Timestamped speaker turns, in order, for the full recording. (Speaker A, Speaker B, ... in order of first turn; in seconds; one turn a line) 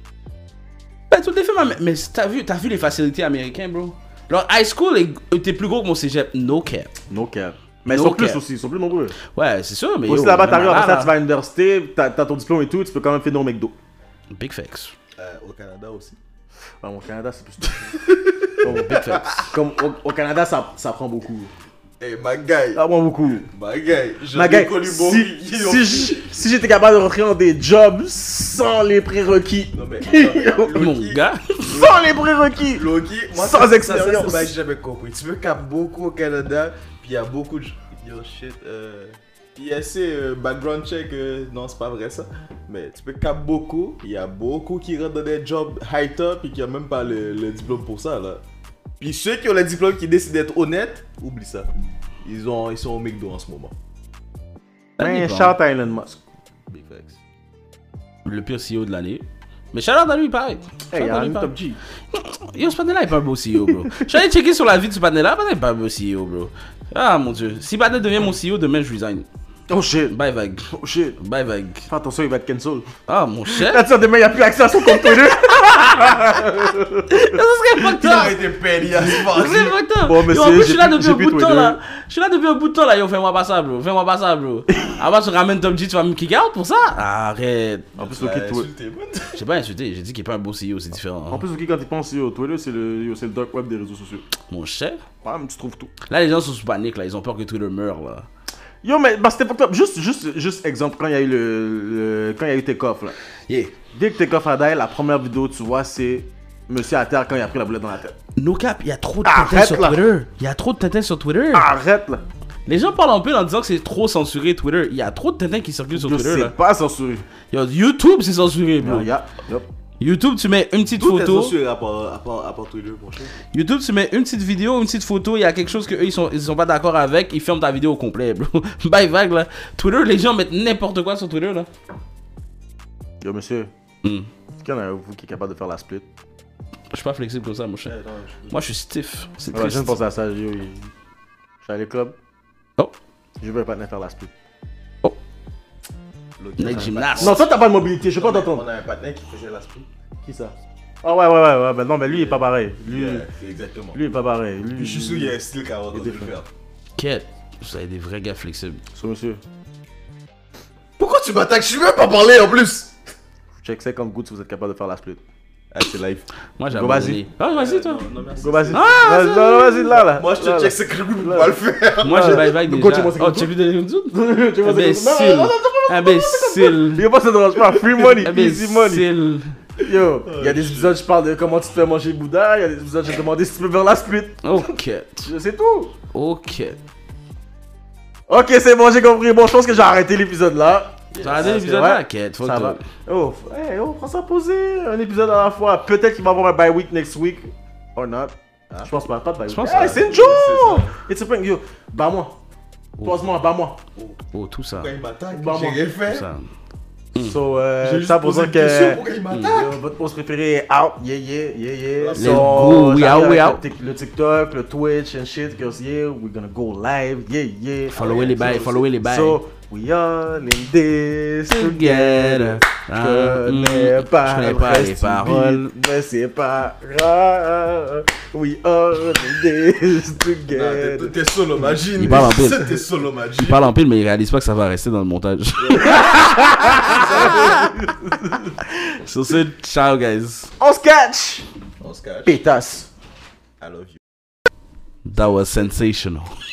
Speaker A: 1.1-6.9
Speaker B: 7.1-9.2
Speaker A: 7.9-8.4
Speaker A: 9.3-11.1
Speaker B: 10.1-13.7
Speaker A: 14.3-14.9
Speaker C: 15.2-16.2
Speaker B: 16.8-21.5
Speaker A: 18.6-19.4
Speaker C: 22.0-22.8
Speaker B: 22.7-23.5
Speaker C: 23.5-26.3
Speaker B: 24.3-30.8
Speaker C: 29.7-31.2
Speaker A: 30.7-31.9
Speaker B: 31.7-34.5
Speaker C: 32.7-48.4
Speaker C: 49.0-51.7
Speaker C: 52.2-53.7
Speaker A: 55.0-55.5
Speaker B: 55.0-56.2
Speaker C: 56.7-57.2
Speaker A: 58.2-61.5
Speaker B: 60.9-61.8
Speaker A: 62.1-69.3
Speaker B: 63.7-64.0
Speaker B: 69.7-70.2
Speaker A: 70.1-71.9
Speaker B: 70.7-71.2
Speaker B: 71.9-72.9
Speaker A: 73.1-73.8
Speaker B: 73.5-77.3
Speaker A: 74.9-75.9
Speaker A: 77.1-78.3
Speaker C: 78.0-79.8
Speaker A: 79.0-87.9
Speaker B: 80.0-81.8
Speaker C: 88.0-89.4
Speaker B: 88.0-88.7
Speaker A: 89.3-91.4
Speaker B: 91.3-94.2
Speaker A: 94.5-95.0
Speaker B: 95.2-95.9
Speaker A: 96.1-98.3
Speaker B: 98.8-103.1
Speaker A: 103.5-103.7
Speaker B: 103.9-108.2
Speaker A: 108.3-111.7
Speaker B: 109.2-110.0
Speaker B: 111.5-112.2
Speaker A: 112.7-116.5
Speaker B: 115.9-117.2
Speaker A: 117.5-119.1
Speaker B: 118.8-119.7
Speaker A: 120.0-121.5
Speaker C: 121.0-123.3
Speaker A: 123.5-131.7
Speaker B: 133.2-133.7
Speaker B: 134.6-136.1
Speaker A: 136.9-137.9
Speaker C: 137.9-138.6
Speaker A: 138.5-140.0
Speaker B: 139.5-140.9
Speaker B: 141.6-142.2
Speaker B: 143.4-144.3
Speaker C: 146.4-147.5
Speaker A: 146.6-147.4
Speaker B: 147.2-148.6
Speaker C: 148.1-149.9
Speaker B: 150.2-153.3
Speaker C: 152.1-154.0
Speaker B: 153.9-155.3
Speaker C: 154.8-156.5
Speaker B: 155.9-156.3
Speaker A: 157.0-158.8
Speaker B: 158.9-159.4
Speaker C: 161.0-162.9
Speaker B: 163.6-165.2
Speaker C: 165.7-166.2
Speaker A: 166.6-168.0
Speaker B: 166.7-167.2
Speaker C: 167.4-169.2
Speaker B: 168.4-173.5
Speaker A: 168.7-169.9
Speaker C: 169.9-172.5
Speaker A: 172.0-177.1
Speaker B: 174.1-179.1
Speaker A: 177.9-179.6
Speaker B: 179.8-184.4
Speaker C: 180.2-181.0
Speaker A: 184.4-185.3
Speaker B: 185.2-185.9
Speaker A: 186.1-186.8
Speaker B: 188.3-200.4
Speaker C: 191.1-191.5
Speaker A: 191.2-192.8
Speaker A: 199.5-200.9
Speaker C: 199.6-200.9
Speaker B: 200.9-202.4
Speaker B: 203.0-203.8
Speaker A: 204.3-204.9
Speaker C: 204.7-206.3
Speaker B: 205.3-205.8
Speaker A: 206.1-206.5
Speaker B: 207.2-231.2
Speaker C: 207.8-209.8
Speaker A: 209.3-209.6
Speaker C: 212.0-213.0
Speaker A: 212.2-213.6
Speaker C: 217.9-218.9
Speaker A: 217.9-219.4
Speaker A: 221.5-225.7
Speaker C: 230.5-233.6
Speaker A: 232.0-232.8
Speaker A: 233.4-237.7
Speaker C: 235.6-236.1
Speaker B: 235.8-238.5
Speaker C: 236.7-237.6
Speaker A: 238.6-240.5
Speaker B: 240.6-241.4
Speaker C: 241.8-242.3
Speaker B: 242.2-242.9
Speaker C: 243.6-244.0
Speaker A: 245.0-246.3